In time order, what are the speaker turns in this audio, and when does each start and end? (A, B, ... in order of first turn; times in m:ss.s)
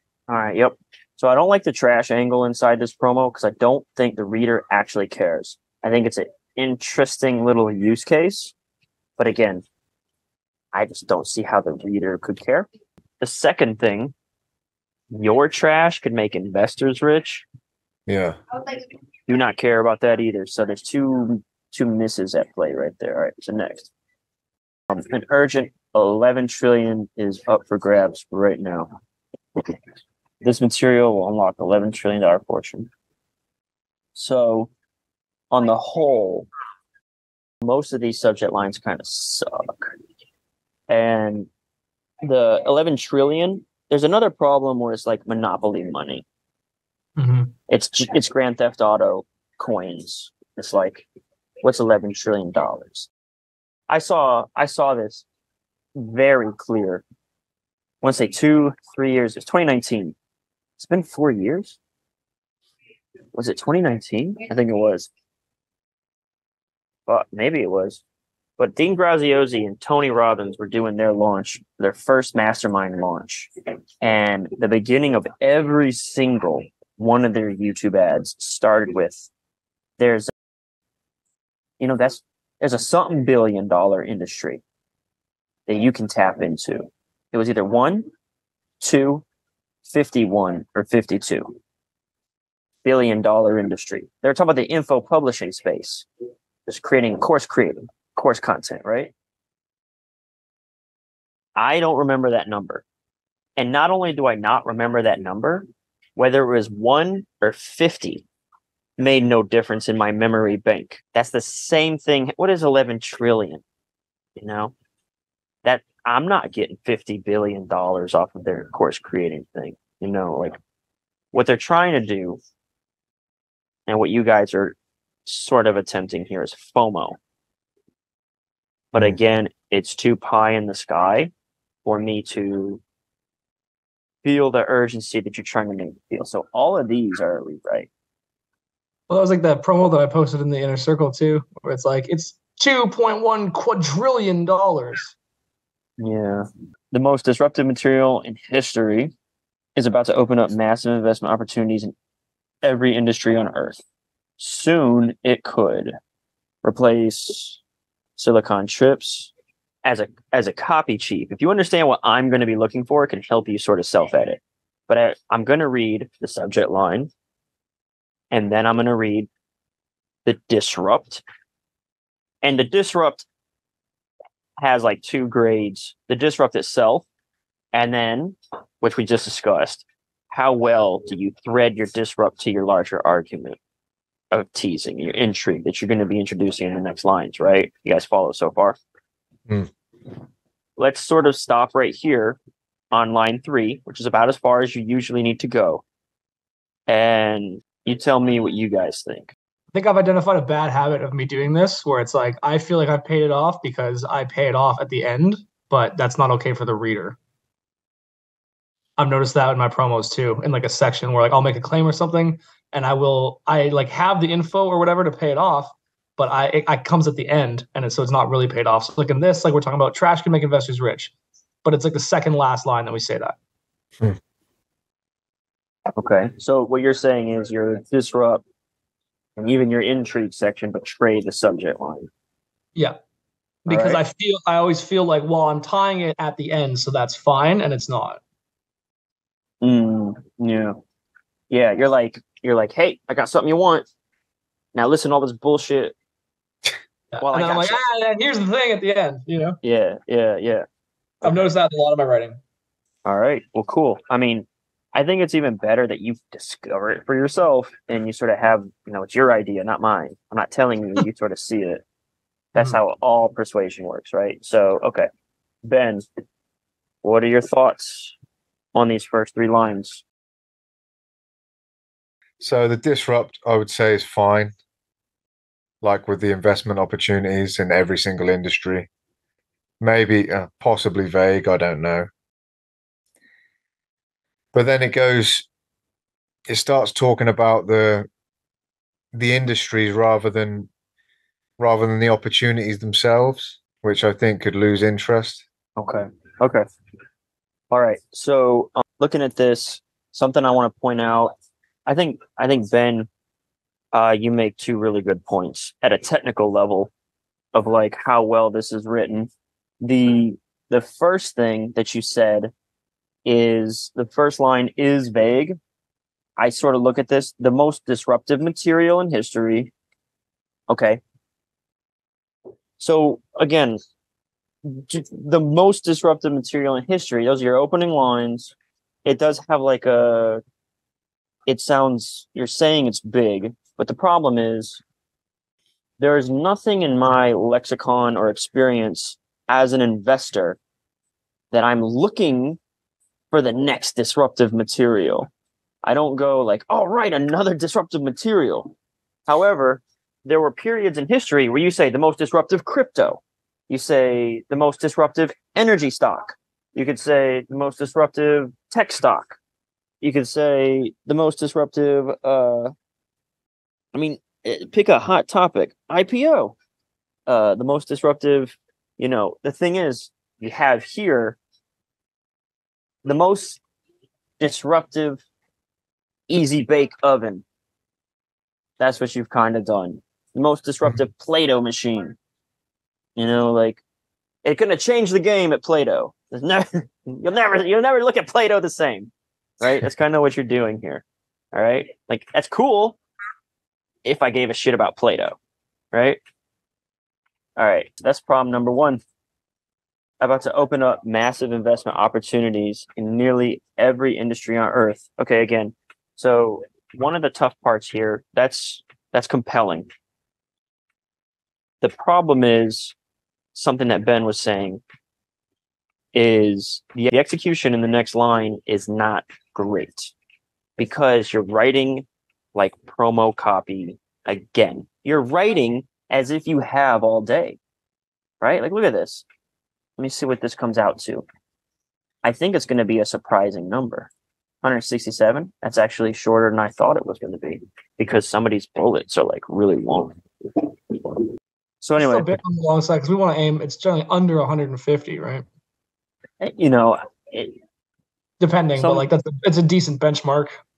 0:00.3-0:08.5 A
0:09.2-0:09.6 A
0:10.7-0:12.7 A
0:13.2-0:14.1 A
0:15.1-0:17.4 A
0:18.1-0:18.4 B
0:19.3-0:23.9 A
0:24.9-0:28.9 A
0:30.4-0:32.9 A
0:34.1-0:34.7 A
0:35.5-0:36.5 A
0:37.6-0:39.9 A
0:40.9-0:41.5 A
0:42.2-0:46.2 A
0:47.2-0:47.5 C
0:47.7-0:51.0 A
0:51.6-0:53.1 A
0:53.9-0:55.2 A
0:55.9-0:57.0 A
0:58.0-1:00.2 A
1:00.8-1:01.8 A
1:03.3-1:05.1 A
1:07.1-1:08.0 A
1:08.6-1:13.5 A
1:14.0-1:19.3 A
1:20.0-1:20.3 A
1:21.8-1:24.6 A
1:25.7-1:28.1 A
1:28.8-1:29.2 A
1:29.8-1:31.6 A
1:32.8-1:36.1 A
1:36.7-1:39.1 A
1:41.6-1:42.8 A
1:43.6-1:48.2 A
1:49.0-1:53.6 A
1:54.4-1:54.7 A
1:55.6-2:00.6 A
2:01.3-2:02.4 A
2:03.9-2:07.2 A
2:08.9-2:11.3 A
2:11.8-2:12.8 A
2:14.2-2:17.9 A
2:19.1-2:25.1 C
2:26.0-2:29.1 A
2:29.8-2:31.9 A
2:32.6-2:33.8 A
2:34.4-2:36.0 A
2:36.6-2:37.6 A
2:38.2-2:39.3 A
2:39.8-2:47.1 A
2:48.3-2:49.3 A
2:50.2-2:51.2 A
2:52.4-2:53.3 A
2:54.6-2:57.0 A
2:57.7-3:03.6 A
3:04.3-3:08.8 A
3:10.8-3:12.4 A
3:12.9-3:15.8 A
3:16.9-3:19.3 A
3:19.7-3:27.2 C
3:29.0-3:41.1 C
3:41.6-3:43.3 C
3:46.0-3:48.4 A
3:49.4-3:52.1 A
3:53.6-3:58.2 C
3:53.7-3:54.0 A
3:59.6-4:00.8 A
4:01.5-4:03.8 A
4:04.7-4:05.9 A
4:07.1-4:09.6 C
4:07.2-4:07.8 A
4:09.6-4:10.6 A
4:11.2-4:11.5 A
4:11.2-4:12.4 C
4:13.0-4:21.8 A
4:22.5-4:25.1 A
4:25.6-4:26.0 A
4:27.0-4:28.1 A
4:28.7-4:30.0 A
4:32.4-4:34.5 B
4:35.8-4:38.9 B
4:39.8-4:42.1 B
4:44.5-4:45.5 B
4:46.5-4:48.1 B
4:49.1-4:50.7 B
4:51.6-4:55.4 B
4:55.8-4:56.6 A
4:57.7-5:01.3 A
5:01.8-5:03.1 A
5:03.9-5:06.9 A
5:07.5-5:09.3 A
5:09.8-5:12.5 A
5:13.2-5:15.6 A
5:16.4-5:19.7 A
5:20.7-5:21.0 A
5:22.8-5:23.8 A
5:24.6-5:28.5 A
5:29.0-5:30.4 A
5:31.5-5:34.8 A
5:36.0-5:40.6 A
5:41.5-5:42.6 A
5:43.3-5:45.3 A
5:45.8-5:48.7 A
5:49.3-5:59.4 A
6:00.0-6:02.7 A
6:03.9-6:06.5 A
6:07.3-6:11.4 A
6:13.0-6:13.6 A
6:14.4-6:15.2 A
6:16.3-6:17.4 A
6:18.8-6:22.2 A
6:23.2-6:23.8 A
6:24.4-6:33.0 A
6:34.0-6:35.4 A
6:35.9-6:36.2 A
6:37.6-6:39.0 A
6:40.2-6:49.9 A
6:51.8-6:52.9 A
6:53.5-6:54.8 A
6:56.1-7:00.1 A
7:00.8-7:07.6 A
7:08.4-7:09.2 A
7:10.0-7:11.2 A
7:12.2-7:14.1 A
7:14.6-7:20.2 A
7:20.9-7:21.2 A
7:21.8-7:22.4 A
7:22.0-7:25.4 C
7:26.4-7:27.5 A
7:28.4-7:30.6 C
7:28.8-7:29.0 A